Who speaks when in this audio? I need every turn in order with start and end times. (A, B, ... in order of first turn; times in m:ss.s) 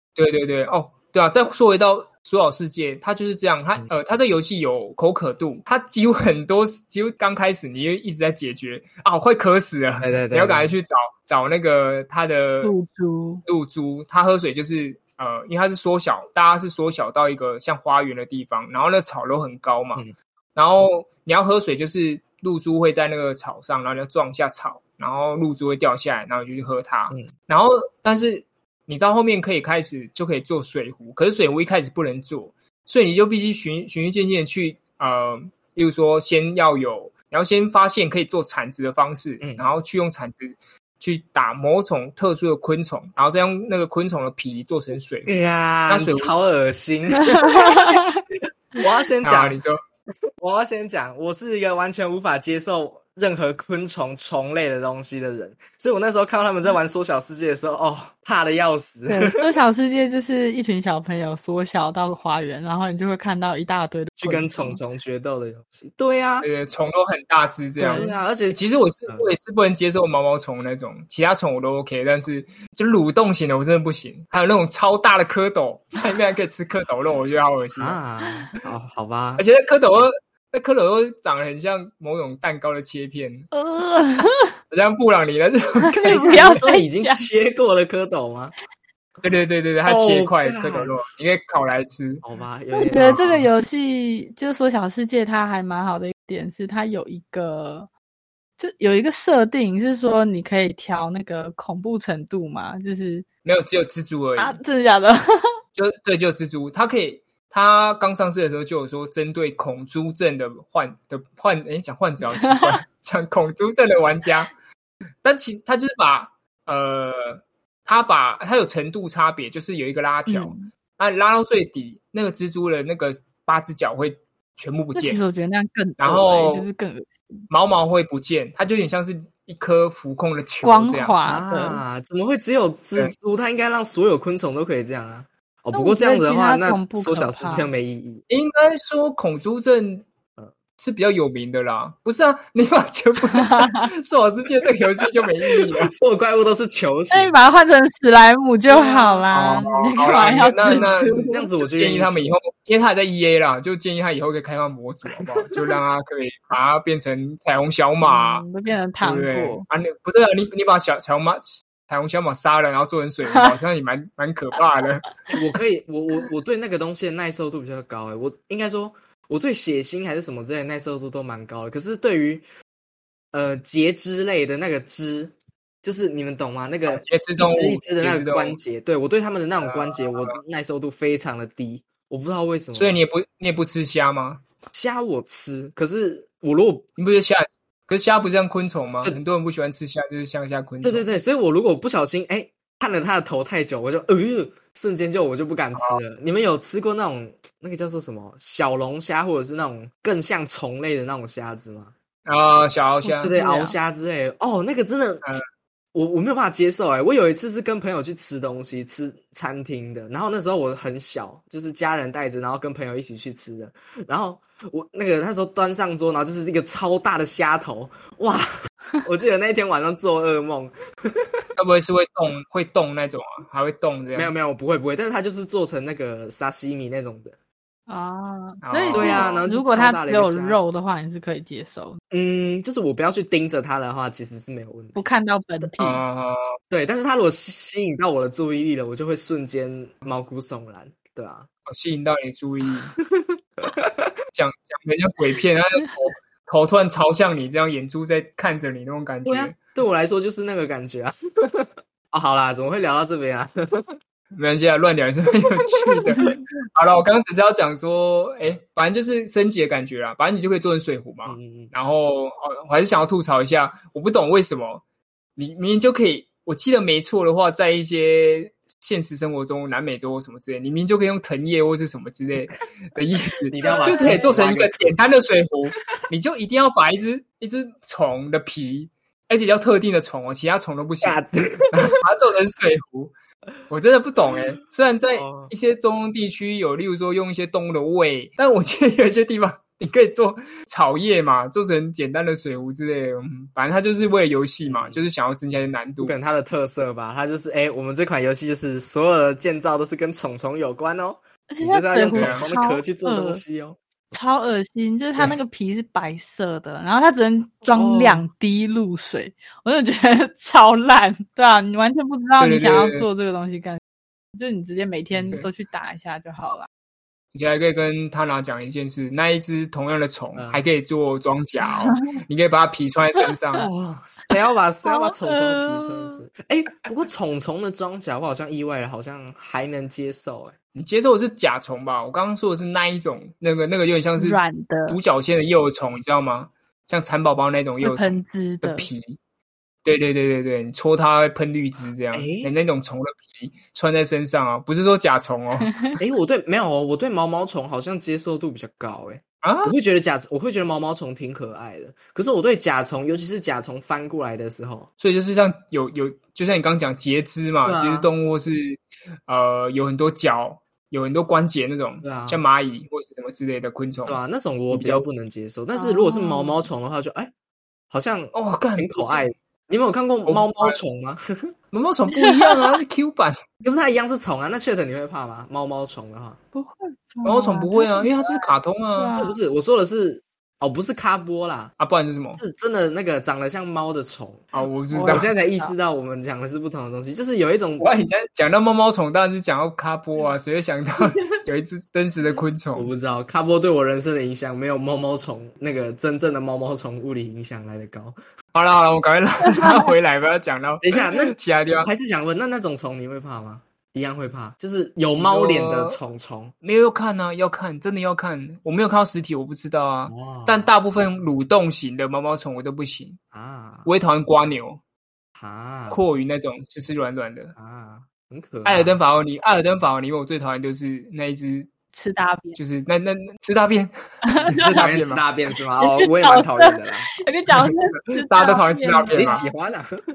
0:00.2-0:12.7 A
0:10.0-0:10.7 B
0:12.6-0:13.4 C
0:13.4-0:20.0 A
0:20.5-0:45.4 A
0:45.3-0:47.8 B
0:45.9-0:46.3 A
0:47.3-0:48.2 C
0:48.8-0:49.6 B
0:49.2-0:49.8 A
0:50.4-0:59.4 B
0:59.1-1:04.8 C
1:04.2-1:06.5 B
1:06.4-1:18.0 A
1:07.8-1:08.1 C
1:07.9-1:09.3 B
1:17.8-1:19.4 B
1:19.4-1:23.5 A
1:23.5-1:24.5 C
1:24.7-1:26.6 A
1:25.9-1:27.2 C
1:26.1-1:28.5 B
1:29.2-1:32.2 A
1:29.8-1:31.0 B
1:32.2-1:33.5 B
1:32.8-1:37.9 C
1:32.9-1:33.3 A
1:38.6-1:43.2 C
1:43.4-1:44.6 A
1:44.4-1:45.5 C
1:45.7-1:54.5 A
1:52.4-1:52.7 C
1:55.2-2:05.2 A
2:00.2-2:00.7 C
2:04.9-2:07.2 C
2:06.0-2:06.7 A
2:07.5-2:11.2 A
2:10.6-2:11.8 C
2:11.2-2:18.2 B
2:15.7-2:17.7 C
2:18.3-2:20.0 A
2:20.8-2:25.9 A
2:23.3-2:23.9 C
2:25.7-2:27.4 B
2:27.1-2:31.5 C
2:28.7-2:38.5 A
2:30.6-2:32.3 B
2:35.2-2:35.8 B
2:38.0-2:39.6 C
2:39.0-2:45.2 A
2:45.3-2:52.4 B
2:53.3-3:03.0 B
2:56.9-2:58.6 A
2:59.6-3:00.4 A
3:02.7-3:04.4 A
3:04.7-3:06.9 B
3:07.0-3:11.0 A
3:10.8-3:21.9 B
3:22.2-3:23.3 A
3:23.0-3:23.8 C
3:23.2-3:25.3 B
3:25.9-3:38.5 B
3:39.0-3:41.4 B
3:41.6-3:44.3 A
3:44.1-3:47.3 B
3:47.9-3:52.0 C
3:48.6-3:49.4 A
3:48.9-3:50.6 B
3:52.1-3:55.0 B
3:55.0-3:56.0 C
3:55.8-3:56.5 A
3:56.7-4:01.5 B
4:01.7-4:03.0 A
4:03.6-4:04.1 B
4:04.3-4:09.6 A
4:09.2-4:14.0 B
4:14.3-4:24.8 A
4:15.7-4:16.4 B
4:21.2-4:21.7 B
4:25.4-4:43.1 A
4:33.5-4:35.0 B
4:33.6-4:34.4 C
4:41.0-4:41.8 B
4:43.7-4:56.2 A
4:45.1-4:45.5 B
4:54.6-4:55.1 B
4:56.0-5:03.8 B
5:01.5-5:03.4 C
5:02.1-5:02.4 A
5:04.1-5:13.8 C
5:07.7-5:08.3 B
5:12.4-5:13.0 A
5:14.3-5:16.7 C
5:15.1-5:15.4 B
5:17.3-5:23.7 A
5:20.4-5:20.6 B
5:21.7-5:21.9 C
5:23.6-5:30.6 B
5:24.8-5:26.2 C
5:30.7-5:39.2 A
5:34.2-5:35.0 C
5:37.8-5:38.9 C
5:39.8-5:45.8 A
5:42.1-5:42.5 B
5:46.0-5:54.9 B
5:49.4-5:49.7 A
5:55.0-6:05.0 A
5:57.6-5:58.1 B
6:02.0-6:02.4 B
6:04.0-6:07.3 B
6:05.7-6:06.6 C
6:07.9-6:11.5 B
6:08.3-6:09.3 A
6:10.2-6:10.8 A
6:11.7-6:13.4 A
6:12.1-6:12.7 C
6:13.6-6:16.4 B
6:16.5-6:19.4 C
6:17.2-6:19.2 A
6:19.1-6:21.7 B
6:21.8-6:22.4 A
6:22.3-6:27.9 B
6:24.5-6:25.3 A
6:24.9-6:25.7 C
6:27.8-6:32.9 A
6:32.7-6:38.2 B
6:38.5-6:41.9 A
6:39.5-6:39.9 C
6:40.8-6:46.5 B
6:45.2-6:46.0 A
6:46.6-6:53.2 A
6:50.1-6:50.7 B
6:53.3-6:53.9 B
6:53.8-6:54.8 A
6:55.4-6:56.0 B
6:55.9-6:57.5 A
6:57.6-6:59.0 B
6:58.6-7:01.7 A
7:01.9-7:02.6 C
7:02.6-7:03.9 A
7:04.2-7:04.7 C
7:04.4-7:05.2 A
7:04.5-7:07.1 B
7:05.8-7:09.4 C
7:08.1-7:09.5 A
7:09.1-7:10.0 B